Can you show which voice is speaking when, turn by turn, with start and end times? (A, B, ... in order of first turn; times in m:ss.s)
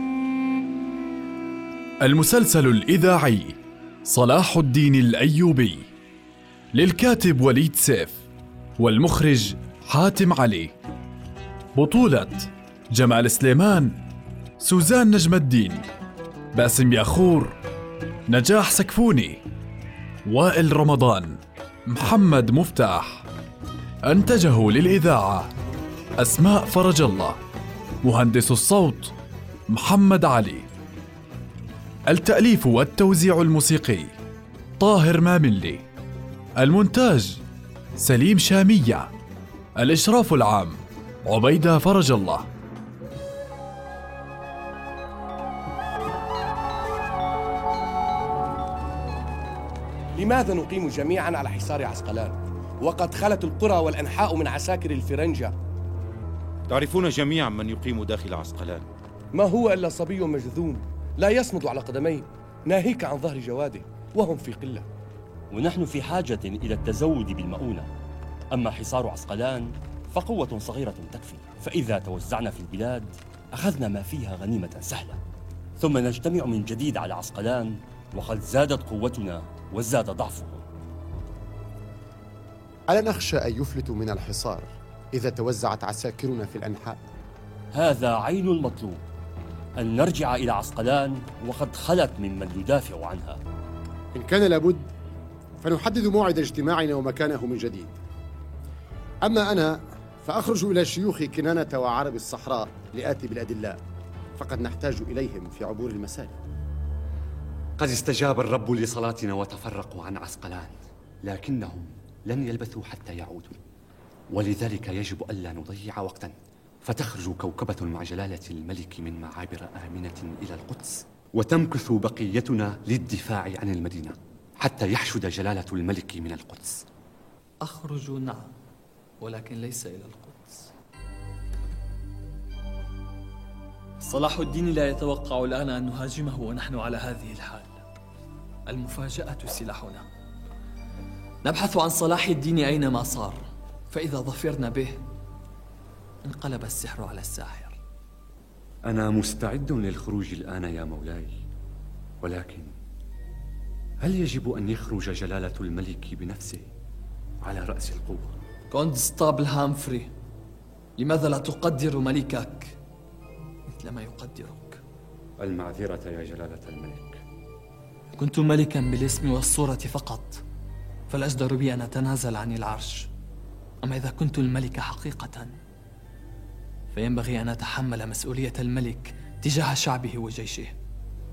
0:02.0-0:05.9 A
0:06.7-0:08.2 A
0:08.8-0:10.7 A
0:11.7-0:14.0 A
0:14.6-0:15.8 A
0:16.5-0:17.5 A
0:18.3-0:19.4 A
0:20.2-0:23.2 A
0:24.0-0:25.5 A
0:26.2-0:27.4 A
0:28.0-0:29.1 A
0:29.7-0:30.7 A
0:32.1-0:34.1 A
0:34.8-0:35.8 A
0:36.6-0:37.4 A
0:38.0-0:39.1 A
0:39.8-0:42.4 A
0:50.2-0:55.5 B
0:56.7-0:58.8 C
0:59.3-1:04.8 B
1:05.5-1:07.8 D
1:08.5-1:15.2 D
1:15.8-1:20.6 D
1:22.9-1:27.0 E
1:27.7-1:29.0 D
1:29.8-1:33.4 D
1:34.1-1:34.9 E
1:35.6-1:38.0 E
1:39.2-1:43.8 E
1:44.4-1:46.3 E
1:47.8-1:53.6 F
1:54.3-2:06.8 F
2:07.6-2:08.5 G
2:09.2-2:10.7 G
2:14.0-2:17.8 G
2:18.7-2:20.0 G
2:21.4-2:25.0 G
2:26.2-2:27.8 G
2:28.9-2:31.4 F
2:32.2-2:32.7 F
2:34.0-2:36.7 F
2:37.4-2:38.3 F
2:38.7-2:40.1 G
2:41.0-2:42.8 G
2:43.7-2:44.8 G
2:45.4-2:47.2 F
2:48.2-2:50.4 G
2:51.1-2:53.1 G
2:53.8-2:55.6 G
2:56.9-3:00.8 G